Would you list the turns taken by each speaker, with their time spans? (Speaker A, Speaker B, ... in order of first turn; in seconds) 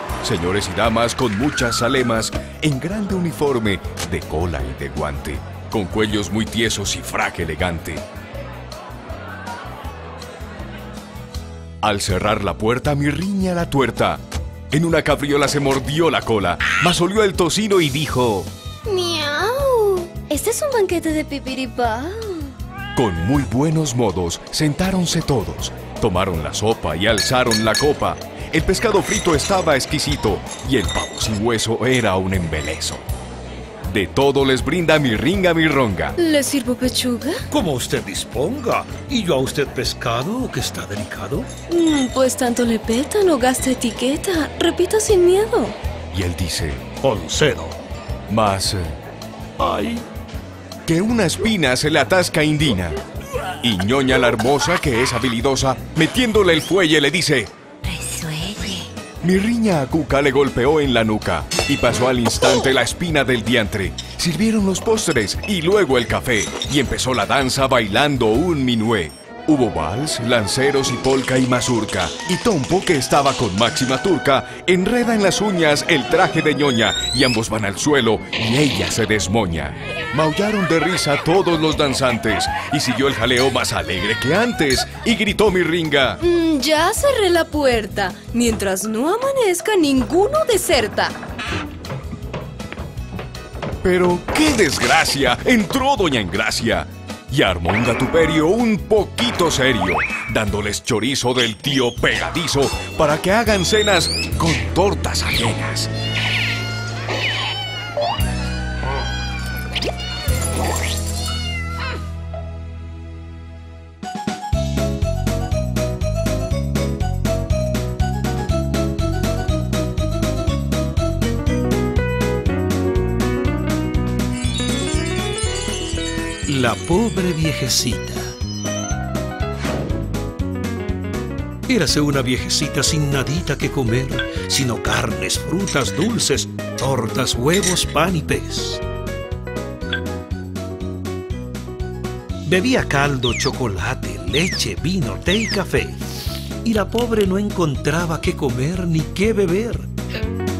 Speaker A: 0.2-8.0, 11.8-18.5, 22.9-33.0, 33.9-36.1, 46.1-46.9, 48.3-49.0, 50.9-53.0, 53.6-57.5, 59.2-86.2, 93.8-105.9
Speaker B: 18.9-22.5, 36.2-37.4, 41.7-45.8, 57.9-58.8, 86.2-91.2
Speaker C: 37.5-41.5, 47.0-47.8, 49.6-50.0, 126.5-128.3, 131.7-138.8, 142.4-149.9